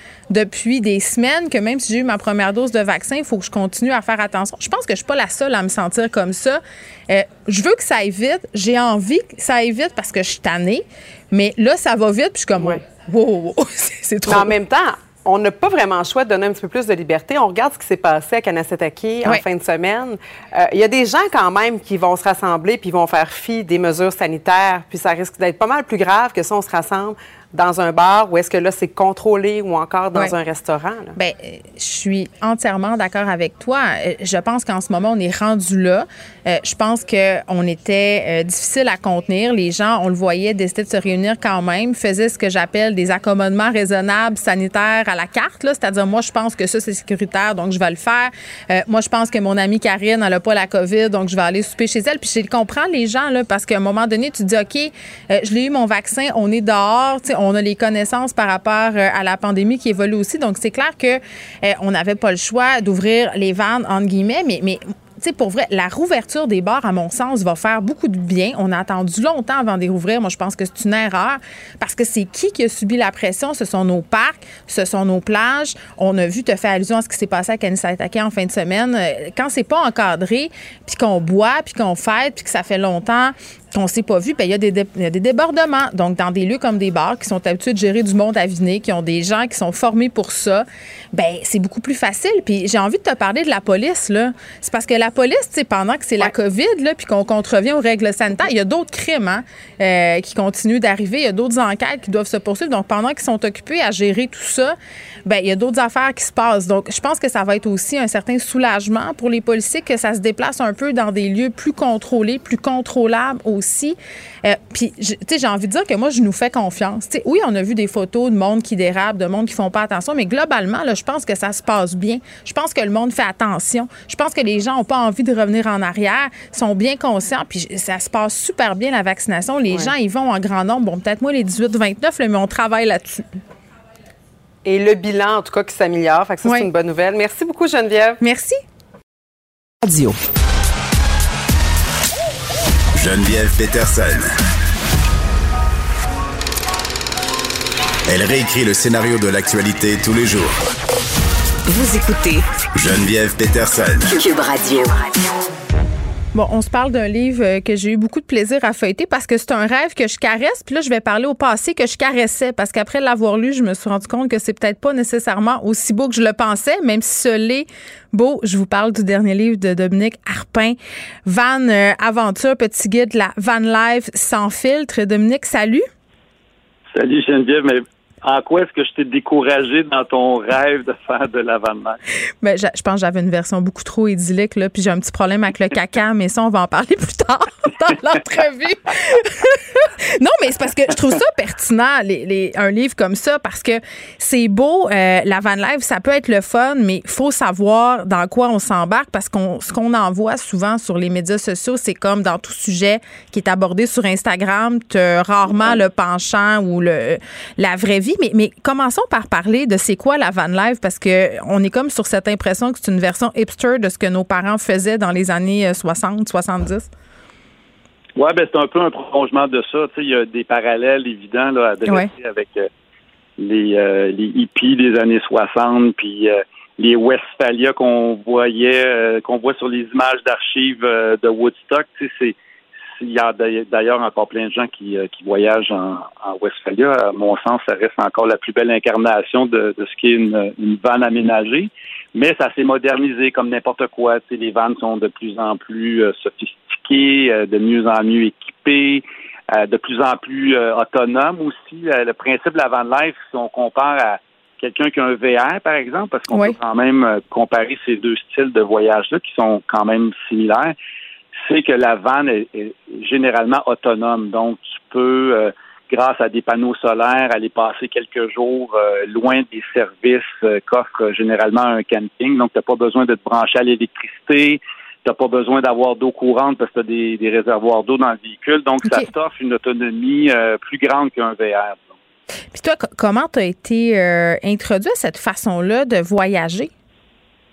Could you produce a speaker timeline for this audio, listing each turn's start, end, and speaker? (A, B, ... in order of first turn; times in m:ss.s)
0:00.3-0:14.5 A
0:12.6-0:12.8 B
0:14.2-0:31.1 B
0:31.2-2:13.4 A
2:14.6-2:18.2 B
2:18.2-2:18.6 A
2:23.0-2:24.3 C
2:28.1-2:30.6 C
2:31.7-2:32.4 D
2:32.7-2:34.2 C
2:34.1-2:35.4 D
2:36.3-2:55.9 A
2:56.9-3:02.0 E
3:02.4-3:36.9 A
3:38.2-3:42.7 E
3:43.4-3:52.4 E
3:53.0-4:20.7 E
4:16.3-4:16.6 A
4:21.4-4:41.9 E
4:42.5-4:46.7 A